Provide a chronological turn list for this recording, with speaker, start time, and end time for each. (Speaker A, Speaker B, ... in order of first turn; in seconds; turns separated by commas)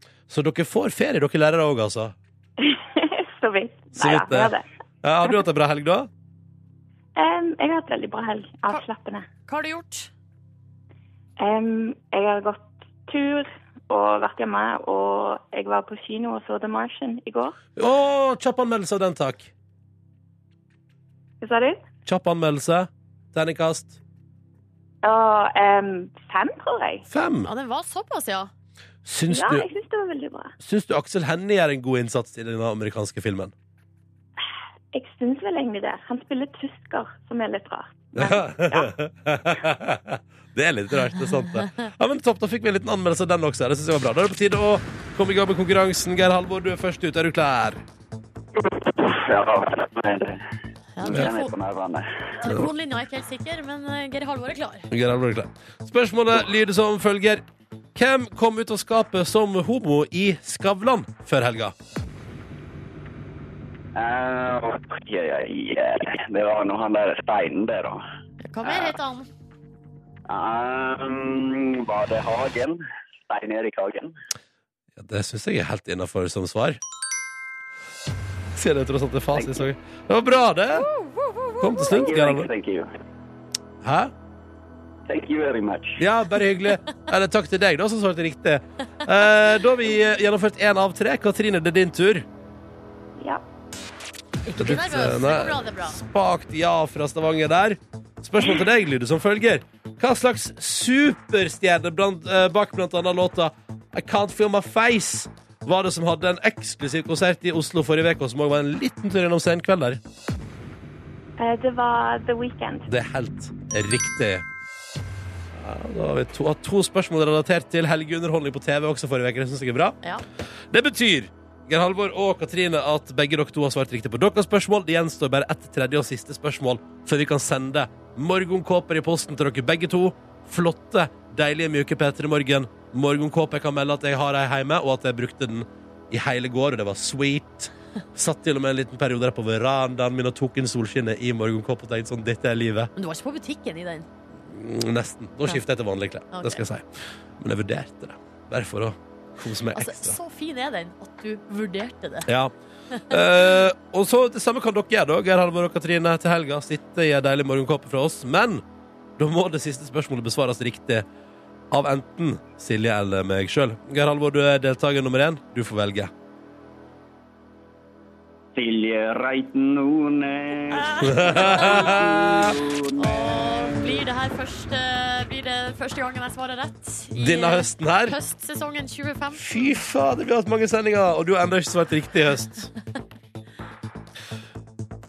Speaker A: 0.3-2.1, Speaker B: 2.6-4.7, Speaker A: 4.0-6.1, Speaker B: 7.2-9.3, Speaker C: 9.5-10.1, Speaker B: 11.4-17.6, Speaker A: 17.8-19.5, Speaker B: 21.4-21.8, Speaker A: 22.1-24.0, Speaker B: 25.0-27.1, Speaker A: 27.1-27.5, Speaker C: 27.4-28.5, Speaker A: 29.1-29.7, Speaker B: 29.3-30.5, Speaker A: 30.6-33.5, Speaker B: 34.9-38.9, Speaker A: 38.1-47.8, Speaker D: 48.6-50.4, Speaker C: 51.0-51.5, Speaker D: 51.0-52.3, Speaker C: 52.4-54.9, Speaker A: 54.9-57.4, Speaker A: 58.0-61.8, Speaker D: 64.0-68.0, Speaker C: 68.4-69.3, Speaker D: 68.7-69.0, Speaker D: 70.3-74.1, Speaker A: 75.0-76.8, Speaker A: 78.5-80.9, Speaker D: 79.3-79.7, Speaker C: 80.8-81.9, Speaker A: 81.6-82.5, Speaker D: 81.9-82.9, Speaker A: 83.8-84.1, Speaker D: 85.1-86.0, Speaker A: 86.0-92.3, Speaker B: 93.2-93.4, Speaker C: 94.5-96.0, Speaker A: 94.6-110.0, Speaker B: 111.4-112.9, Speaker A: 112.9-114.5, Speaker A: 115.5-120.0, Speaker A: 120.7-142.9, Speaker C: 143.0-144.1, Speaker A: 144.4-146.9, Speaker C: 146.3-146.6, Speaker A: 147.4-150.2, Speaker C: 149.7-152.3, Speaker A: 152.3-152.5, Speaker A: 153.1-158.6, Speaker A: 159.2-161.1, Speaker A: 161.7-166.1, Speaker D: 168.6-174.0, Speaker C: 170.7-172.0, Speaker A: 171.0-172.6, Speaker C: 173.0-179.8, Speaker A: 177.2-178.2, Speaker A: 179.3-182.7